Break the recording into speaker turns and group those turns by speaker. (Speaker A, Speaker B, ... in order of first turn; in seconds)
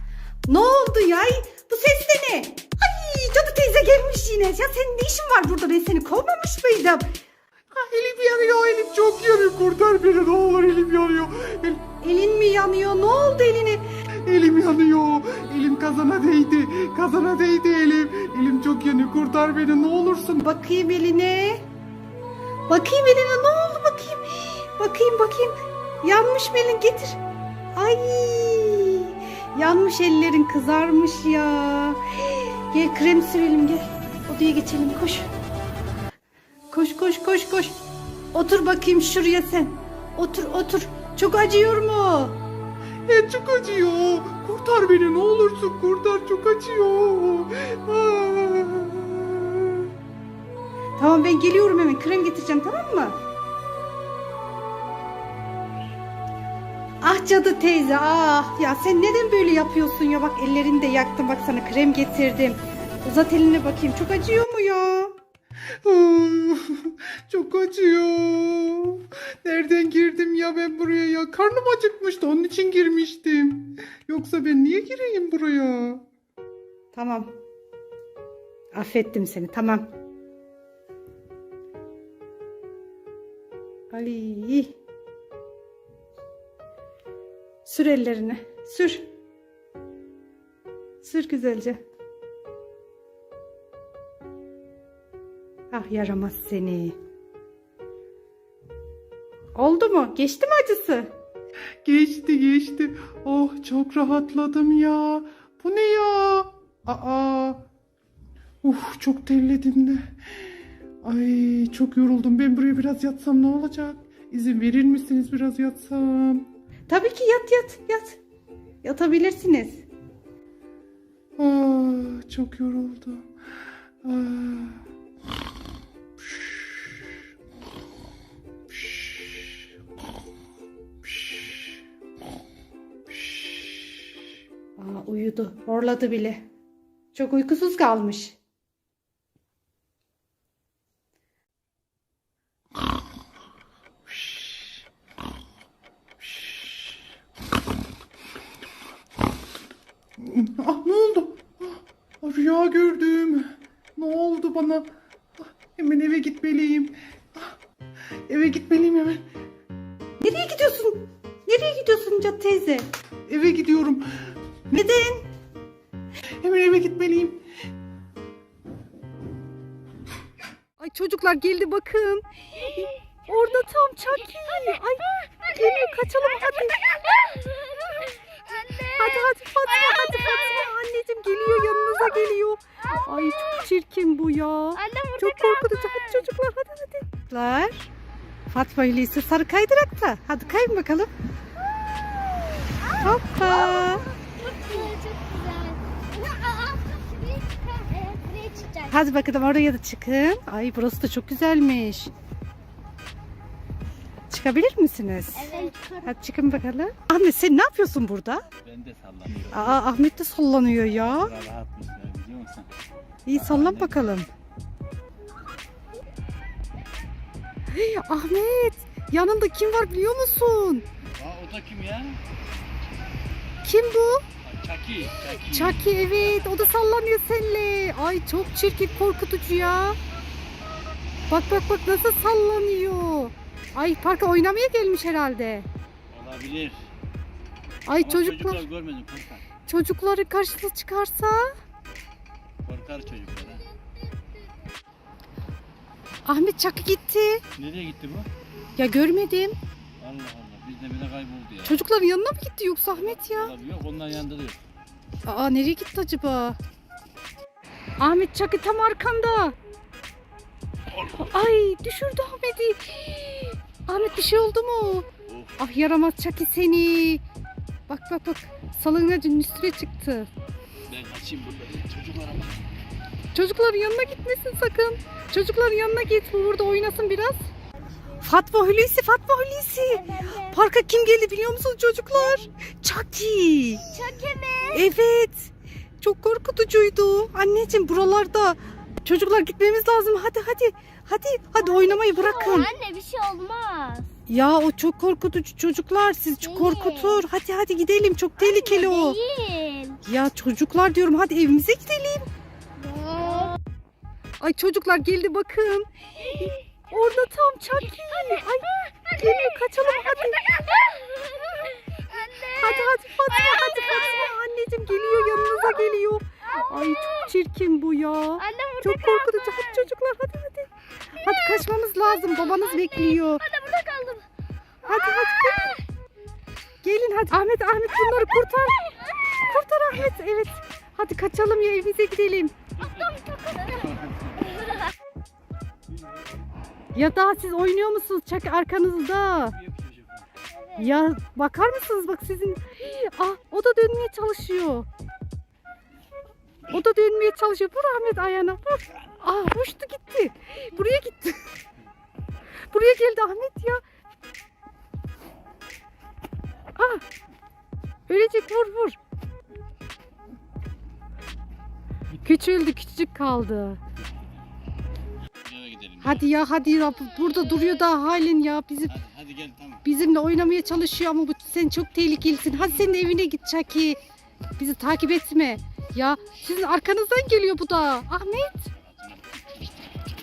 Speaker A: 0.5-7.0, 12.0-13.8, 20.4-21.6, 22.7-27.2, 27.7-35.3, 36.7-37.8, 38.3-42.4, 51.0-53.2, 57.0-65.1, 76.9-77.3, 78.7-79.9, 83.9-84.7, 87.6-89.0, 91.0-91.8, 95.7-97.0, 99.5-101.1, 116.9-118.2, 118.8-119.8, 134.8-136.4, 137.1-138.4, 160.2-162.9, 164.7-165.3, 170.8-176.8, 178.9-187.9, 188.5-191.1, 193.0-194.1, 198.9-202.1, 204.3-208.4, 209.5-211.3, 213.2-214.3, 217.7-220.9, 223.6-224.2, 225.4-230.0, 231.3-235.7, 237.8-238.6, 239.7-241.5, 246.2-247.4, 248.8-249.6, 251.6-253.5, 255.2-256.6, 258.0-259.6, 261.1-267.2, 267.9-270.3, 273.3-277.5, 278.2-283.9, 284.7-292.7, 294.3-299.2, 300.0-302.3, 304.4-310.6, 312.6-323.5, 324.8-325.8, 326.8-332.5, 336.9-339.6, 340.8-344.9, 346.7-351.5, 352.7-353.8, 356.8-357.0, 358.1-359.0, 362.1-363.8, 366.0-369.0, 369.8-374.0, 374.6-378.7
Speaker B: 7.7-11.9, 14.2-20.4, 43.1-49.9, 65.8-76.0, 101.8-107.6, 108.6-110.1, 111.0-116.5, 121.4-123.3, 124.0-124.8, 126.2-126.8, 128.7-129.5, 131.0-131.8, 133.2-133.5, 144.1-144.6, 146.2-146.8, 150.2-154.9, 155.4-157.5, 158.3-159.2, 163.3-164.3, 166.4-167.4
Speaker C: 177.0-180.6, 184.8-186.2, 192.7-199.0, 205.3-206.1, 279.9-280.5, 283.8-284.9, 291.8-294.1, 296.5-297.2, 298.4-300.0, 302.9-303.6, 310.7-314.2, 318.4-319.9, 322.3-324.2, 332.8-334.0
Speaker D: 208.6-209.8, 211.0-212.7, 213.3-214.0, 221.1-222.2, 224.4-226.0, 236.1-236.9, 237.9-239.4, 242.6-243.7, 247.6-248.3, 250.0-251.8, 252.9-254.6, 265.3-265.6, 270.9-272.6, 333.8-334.4, 339.7-340.2, 365.4-366.2, 368.9-369.8, 378.8-379.7